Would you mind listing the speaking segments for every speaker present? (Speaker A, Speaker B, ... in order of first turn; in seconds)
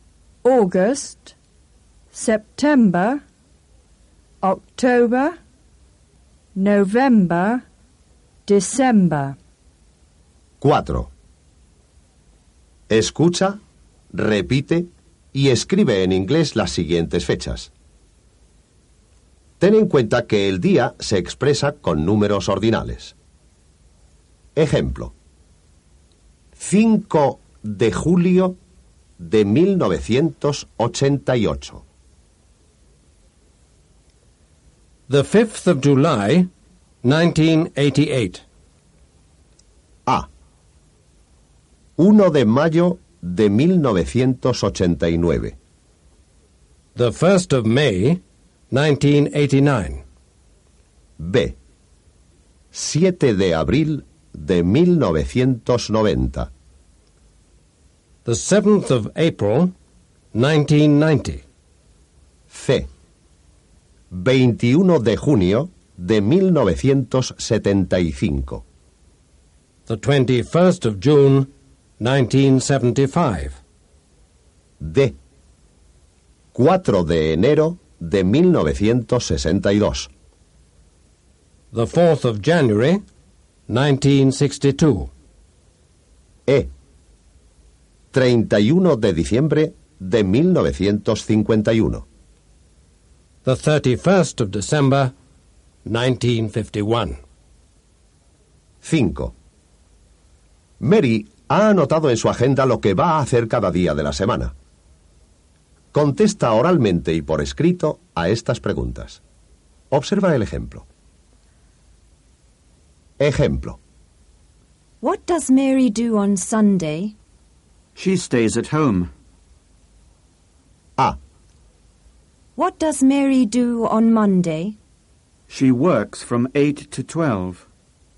Speaker A: 0.4-1.4, 2.1-3.2, 4.4-5.4, 6.5-7.6, 8.5-9.4
Speaker B: 10.6-11.1, 12.9-13.6, 14.1-17.7, 19.6-23.1, 24.6-25.1, 26.6-28.6, 29.2-31.8, 42.0-45.6, 51.2-51.6, 52.7-56.5, 62.5-62.9, 64.1-68.6, 74.8-75.2, 76.5-80.1, 88.1-92.0, 98.8-99.3, 100.8-104.5, 105.9-109.2, 109.9-110.9, 113.2-113.8
Speaker C: 35.1-36.5, 37.0-38.4, 47.0-50.0, 58.2-59.7, 60.3-61.4, 69.9-73.6, 81.7-83.0, 83.7-85.1, 93.4-95.1, 95.8-97.2
Speaker D: 115.0-117.2, 122.6-124.8
Speaker E: 118.0-119.1, 125.5-127.7